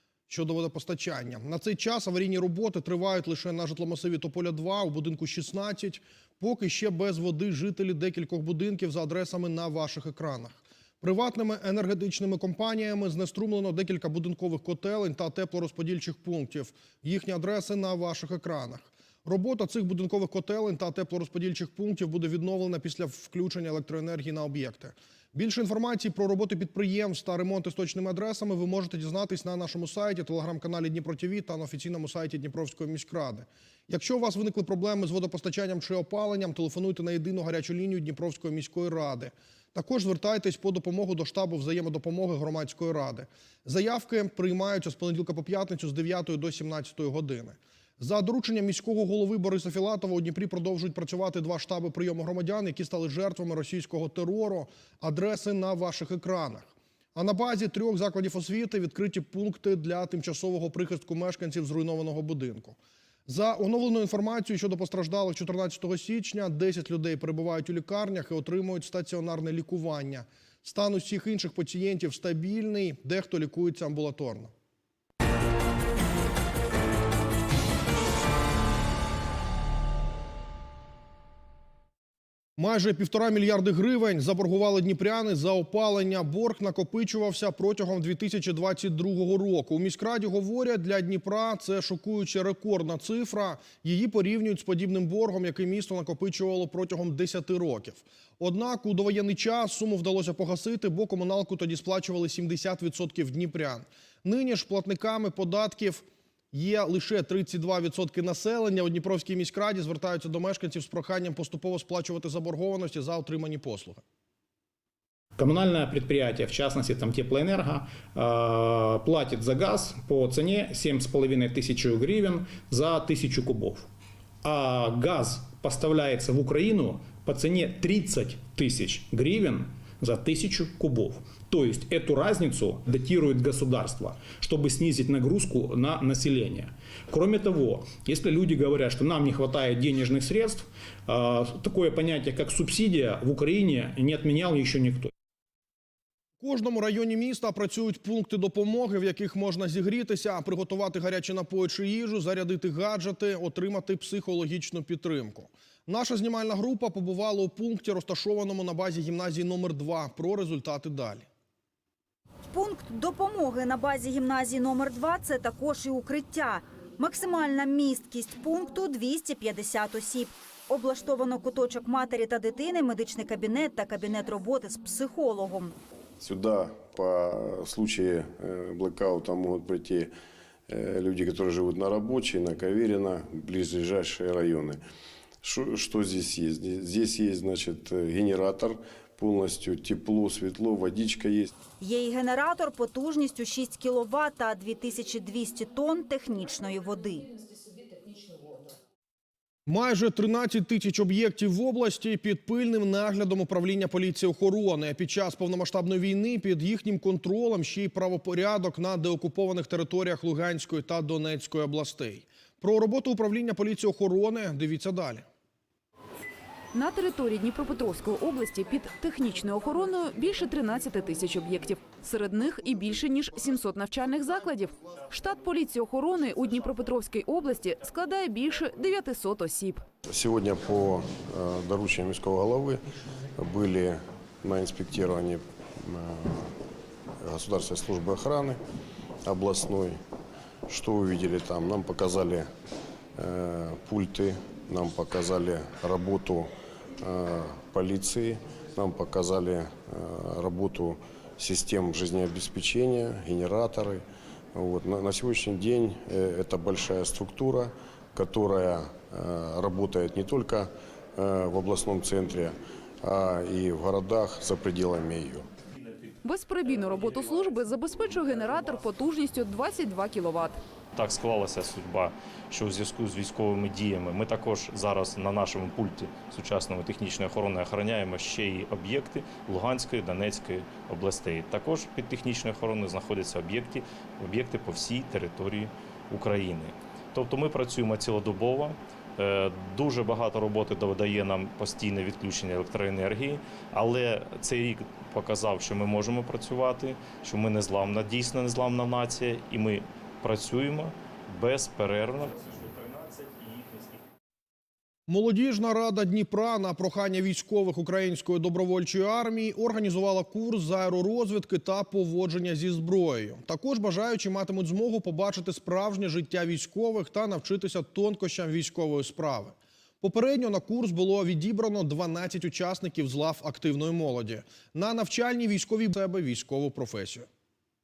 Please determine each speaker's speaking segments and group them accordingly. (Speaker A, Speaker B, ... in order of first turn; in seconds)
Speaker A: 0.3-74.5, 82.6-114.0, 146.4-161.3, 199.7-215.3, 305.1-327.3
Speaker B: 115.4-123.9, 124.4-145.1
Speaker C: 162.5-175.7, 191.8-197.3
Speaker D: 176.2-180.1, 180.7-184.8, 185.4-191.5, 230.1-232.8, 233.4-236.5, 237.2-238.6, 239.2-240.0, 240.7-242.5, 243.2-246.5, 247.0-254.0, 254.5-265.5
Speaker E: 216.7-229.8, 266.2-270.6
Speaker F: 271.0-303.9